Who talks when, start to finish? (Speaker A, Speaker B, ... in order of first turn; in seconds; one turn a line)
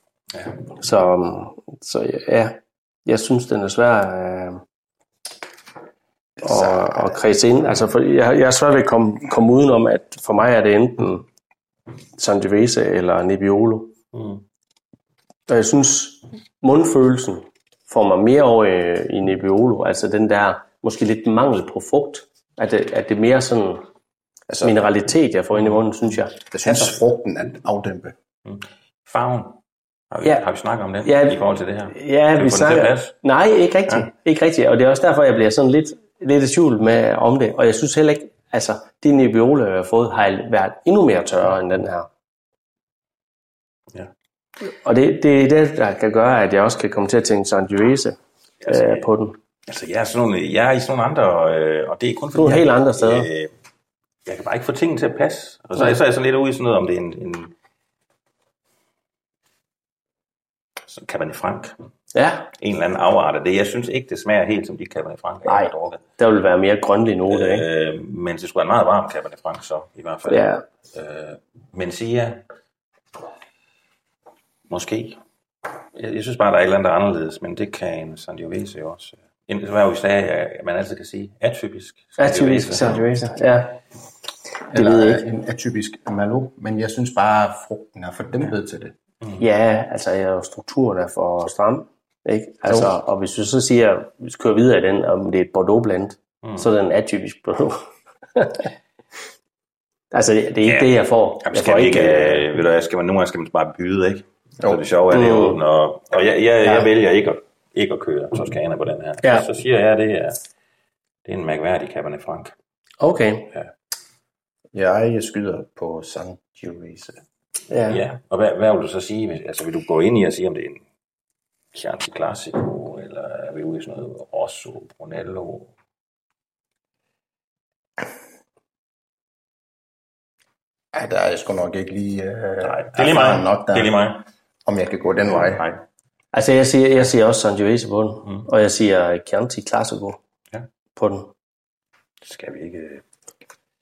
Speaker A: 0.3-0.6
Speaker B: 0.8-4.6
Speaker C: 6.4-7.1
Speaker B: 6.4-11.3
Speaker B: 12.2-13.9
Speaker A: 14.1-14.4
Speaker B: 15.5-23.9
Speaker C: 24.5-24.8
Speaker B: 24.6-26.8
Speaker C: 26.5-28.1
Speaker A: 28.4-29.6
Speaker A: 30.1-33.1
Speaker B: 31.0-31.4
Speaker B: 31.9-42.1
Speaker B: 44.6-49.4
Speaker A: 48.6-49.1
Speaker A: 49.7-53.5
Speaker B: 52.4-53.3
Speaker A: 54.3-57.5
Speaker A: 60.9-61.8
Speaker B: 62.1-62.5
Speaker A: 62.6-66.0
Speaker B: 65.5-67.7
Speaker A: 67.3-72.4
Speaker B: 70.3-70.6
Speaker A: 74.7-75.2
Speaker A: 75.9-83.1
Speaker B: 82.2-83.8
Speaker B: 84.7-85.2
Speaker C: 84.7-88.9
Speaker B: 89.4-98.7
Speaker B: 100.1-102.5
Speaker A: 100.6-110.4
Speaker B: 105.1-105.6
Speaker A: 111.2-112.5
Speaker B: 113.0-113.5
Speaker C: 114.7-117.2
Speaker B: 117.7-118.0
Speaker A: 117.9-120.8
Speaker A: 121.7-125.7
Speaker C: 130.9-134.0
Speaker A: 132.6-134.3
Speaker C: 134.7-135.6
Speaker A: 135.3-135.8
Speaker B: 136.3-140.2
Speaker B: 141.0-141.3
Speaker A: 142.2-143.0